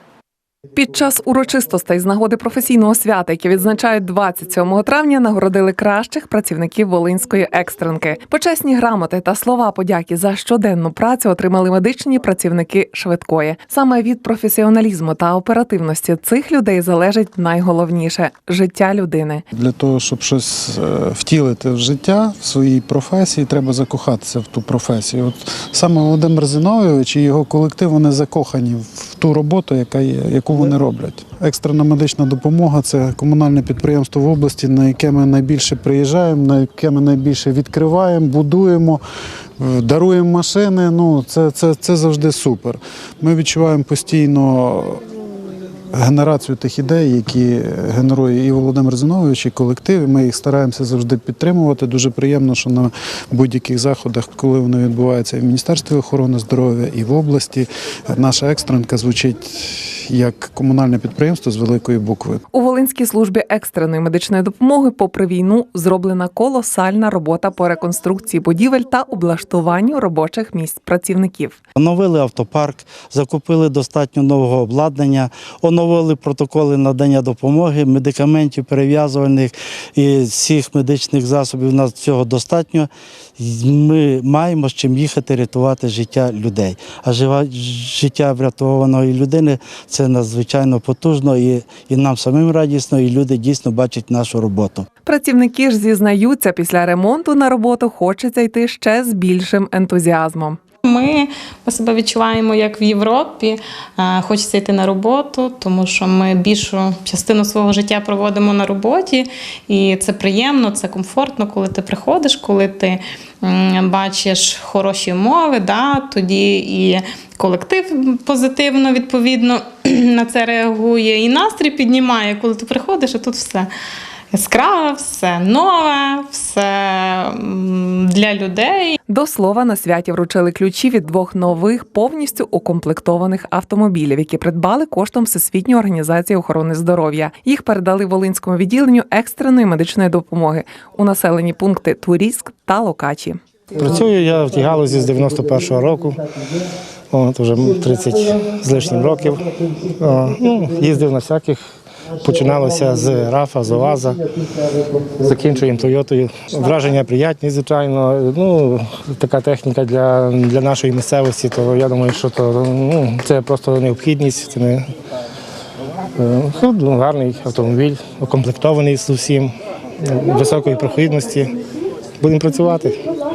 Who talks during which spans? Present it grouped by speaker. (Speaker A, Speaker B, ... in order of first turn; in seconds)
Speaker A: 0.7-19.4, 62.5-71.6, 95.0-100.6, 129.1-143.4
Speaker B: 19.5-39.0, 39.6-45.0, 45.9-62.4
Speaker C: 71.8-94.8
Speaker D: 100.8-123.7, 124.3-128.9
Speaker E: 143.7-146.2, 147.1-154.2, 155.1-164.8, 166.2-169.5, 170.0-171.5, 172.2-172.9